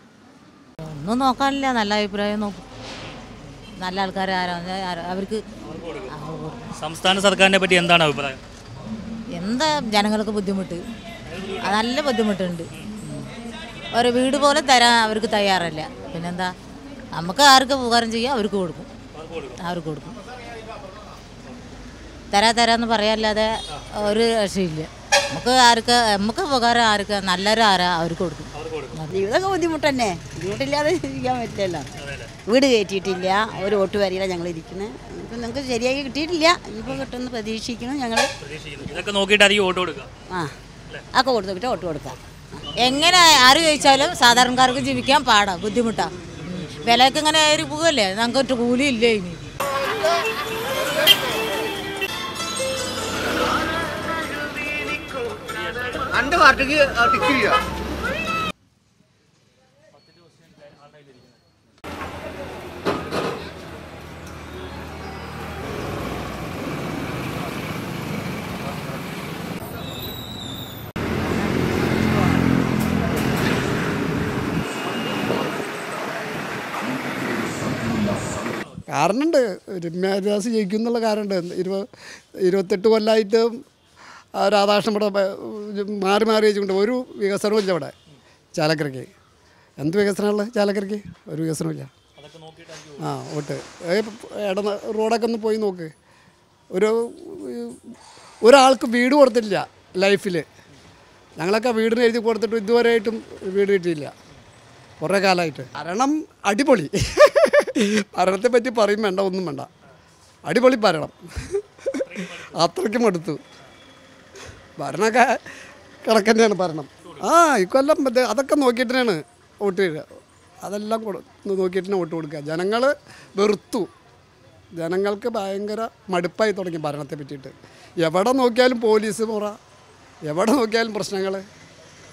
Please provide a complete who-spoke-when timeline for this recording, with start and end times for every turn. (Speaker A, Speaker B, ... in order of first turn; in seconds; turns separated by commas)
Speaker A: 0.8-2.6, Speaker A: 3.8-5.4, Speaker B: 5.7-6.1, Speaker A: 6.1-6.7, Speaker B: 6.8-8.4, Speaker A: 9.4-10.8, Speaker B: 11.3-11.8, Speaker A: 11.6-13.3, Speaker A: 13.9-16.5, Speaker A: 17.1-18.9, Speaker B: 19.2-19.6, Speaker A: 19.6-20.1, Speaker A: 22.3-29.1, Speaker B: 28.6-29.0, Speaker C: 29.1-31.8, Speaker B: 32.0-32.3, Speaker C: 32.5-38.3, Speaker B: 38.4-40.1, Speaker C: 41.1-42.1, Speaker A: 42.8-49.4, Speaker B: 55.6-56.9, Speaker B: 59.9-61.4, Speaker D: 78.9-81.8, Speaker D: 82.4-83.6, Speaker D: 84.4-87.9, Speaker D: 88.5-89.1, Speaker D: 89.8-91.9, Speaker B: 92.2-93.0, Speaker D: 93.0-95.9, Speaker D: 96.7-97.8, Speaker D: 98.4-100.5, Speaker D: 101.4-104.1, Speaker D: 105.0-109.7, Speaker D: 110.5-111.6, Speaker B: 112.0-112.6, Speaker D: 112.1-113.4, Speaker D: 114.8-115.4, Speaker D: 116.0-120.0, Speaker D: 120.6-123.9, Speaker D: 124.7-129.6, Speaker D: 130.3-131.4